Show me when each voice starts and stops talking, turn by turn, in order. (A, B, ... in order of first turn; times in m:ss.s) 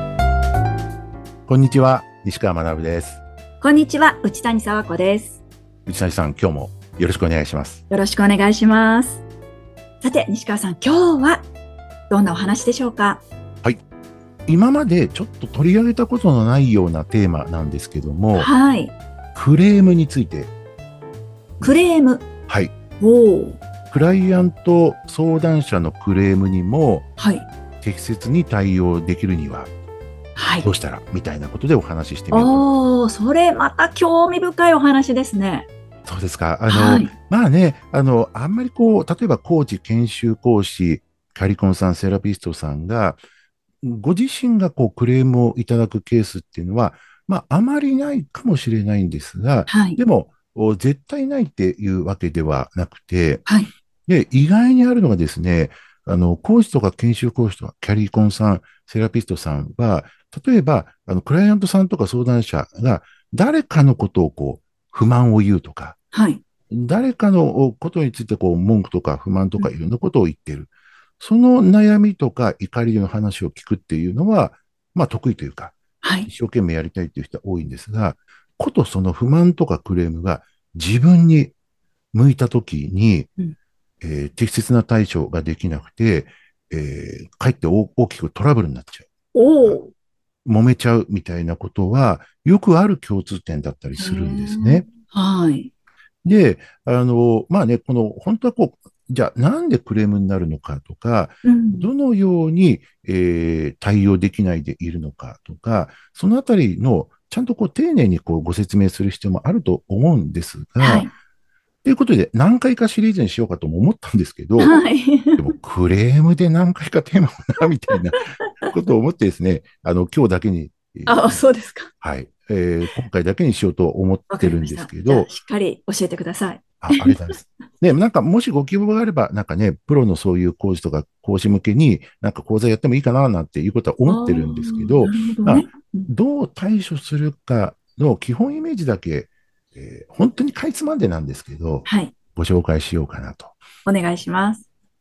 0:01.5-0:03.2 A
0:03.6-0:05.4 B
0:05.9-0:07.8 A
0:07.9-0:09.2 B
0:10.0-0:11.5 B
0:12.1-0:13.2 B
0:14.5-0:18.5 A
0:18.3-0:19.0 B
0:19.4-0:20.5 A
0:21.6-0:22.3 B
0:22.5-0:22.7 A
0:23.0-0:23.6 B
0:23.9-0:27.1 A
0:27.2-0:27.5 B
0:27.8-0:29.7 A
0:30.4-0:30.7 B
0:30.6-0:32.6 A
0:32.3-0:35.7 B
0:36.1-0:43.2 A
0:36.7-0:37.1 B
0:43.8-0:53.5 A
0:49.7-0:50.0 B
0:53.5-0:53.7 B
0:54.1-1:06.0 A
1:06.1-1:06.4 B
1:06.7-1:15.8 A
1:16.0-1:16.3 B
1:16.3-1:21.5 A
1:22.1-1:23.3 A
1:24.0-1:29.1 A
1:29.3-1:29.9 B
1:30.4-1:34.9 A
1:34.0-1:35.7 B
1:36.2-1:51.1 A
1:41.4-1:41.9 B
1:50.8-1:51.1 B
1:51.8-1:54.8 A
1:54.6-1:55.5 B
1:55.4-2:01.4 A
2:01.1-2:01.9 B
2:02.0-2:05.3 A
2:04.3-2:07.3 B
2:06.8-2:23.6 A
2:14.0-2:16.1 B
2:21.9-2:22.1 B
2:23.8-2:24.6 B